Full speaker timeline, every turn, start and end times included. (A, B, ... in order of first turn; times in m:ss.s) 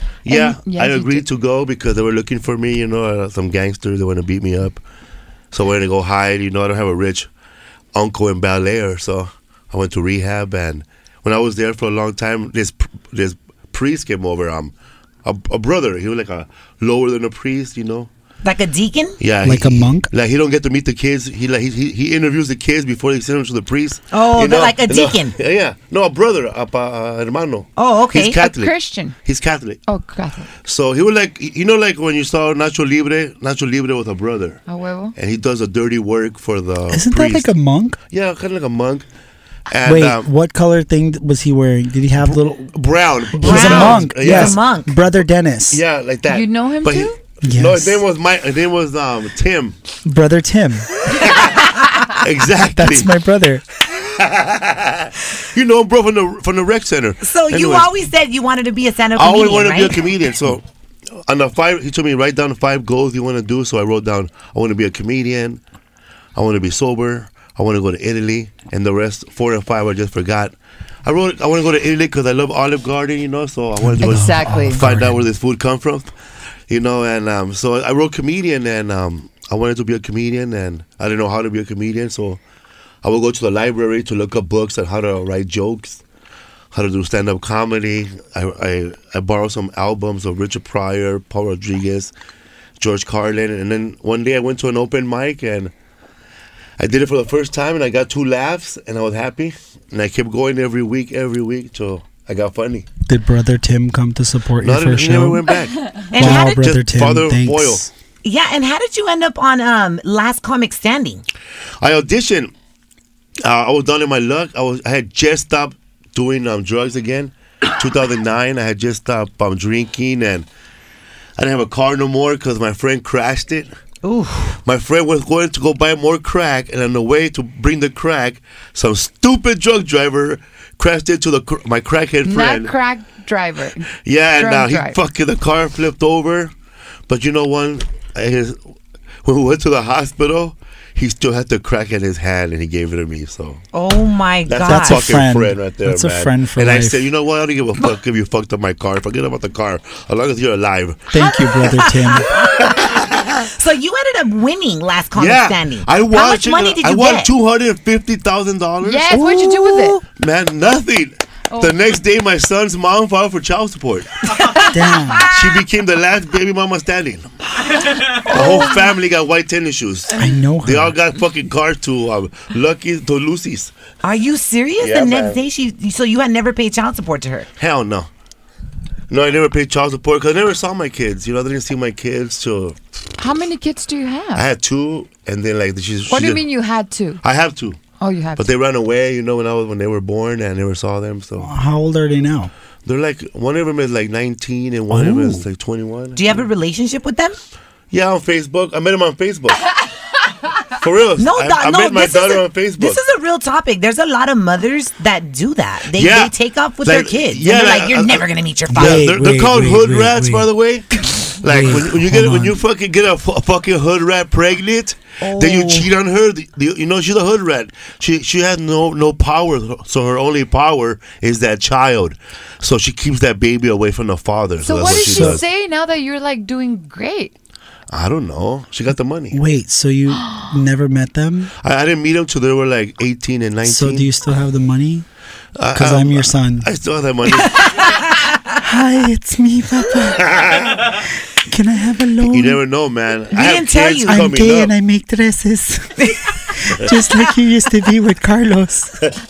0:00.2-0:04.8 A
0:00.3-0:01.2 B
0:05.5-0:07.3 A
0:07.9-0:14.7 A
0:15.2-0:18.1 A
0:18.4-0:19.2 C
0:19.2-0:28.7 A
0:19.4-0:20.1 D
0:24.1-0:25.4 C
0:27.8-0:28.4 C
0:28.4-0:29.1 B
0:29.2-0:29.8 A
0:29.9-0:30.5 B
0:30.6-0:34.6 A
0:34.7-0:35.1 B
0:35.2-0:37.5 A
0:36.9-0:38.0 D
0:38.1-0:39.0 A
0:39.7-0:40.2 A
0:39.8-0:42.7 D
0:42.2-0:44.6 A
0:43.3-0:45.8 D
0:43.4-0:44.9 C
0:45.7-0:49.8 A
0:46.3-0:47.2 B
0:47.4-0:48.0 D
0:50.0-0:50.9 D
0:51.0-0:53.1 A
0:52.6-0:53.6 D
0:53.9-0:57.9 A
0:57.2-1:00.0 C
0:59.2-1:00.6 A
1:01.2-1:05.6 A
1:06.3-1:10.5 A
1:11.0-1:16.1 A
1:13.8-1:15.2 D
1:14.0-1:14.8 B
1:16.7-1:22.4 A
1:23.0-1:26.0 A
1:26.7-1:32.1 A
1:32.8-1:35.7 A
1:36.8-1:42.8 A
1:43.1-1:45.5 D
1:44.6-1:47.8 A
1:46.1-1:46.6 C
1:46.1-1:47.9 D
1:48.2-1:51.2 C
1:51.8-1:52.5 A
1:53.4-2:00.5 A
2:01.4-2:03.7 A
2:04.0-2:04.6 C
2:04.6-2:12.7 A
2:12.2-2:15.0 B
2:14.0-2:16.5 A
2:17.1-2:18.6 A
2:19.2-2:23.6 A
2:23.7-2:25.2 C
2:24.5-2:31.1 A
2:24.6-2:27.1 D
2:31.1-2:32.3 D
2:31.5-2:32.8 C
2:32.3-2:33.5 A
2:33.4-2:37.3 C
2:35.2-2:39.2 A
2:38.8-2:40.0 B
2:39.1-2:39.9 C
2:40.1-2:44.3 A
2:44.6-2:45.3 D
2:45.3-2:47.3 A
2:48.0-2:53.7 A
2:48.3-2:48.6 B
2:50.2-2:51.0 D
2:54.0-2:57.5 C
2:54.8-2:55.4 A
2:57.6-2:58.1 A
2:59.1-3:02.8 A
3:03.2-3:04.4 B
3:04.3-3:06.4 A
3:06.1-3:07.2 B
3:07.2-3:07.8 A
3:08.0-3:08.5 B
3:08.4-3:11.5 A
3:11.4-3:12.5 D
3:12.8-3:16.4 A
3:14.9-3:15.4 D
3:16.2-3:17.4 C
3:17.9-3:19.7 A
3:20.7-3:23.0 A
3:21.2-3:29.0 C
3:25.9-3:45.4 A
3:28.7-3:30.5 D
3:31.4-3:32.6 D
3:35.2-3:35.9 C
3:44.6-3:47.3 B
3:45.0-3:45.4 D
3:47.9-3:49.4 A
3:49.3-3:51.5 D
3:51.6-3:54.1 A
3:53.6-3:55.0 D
3:55.6-3:57.9 A
3:55.7-3:56.7 D
3:57.6-3:58.1 C
3:58.6-4:02.6 D
4:00.2-4:00.9 A
4:02.3-4:04.7 A
4:03.3-4:04.2 C
4:04.0-4:09.1 D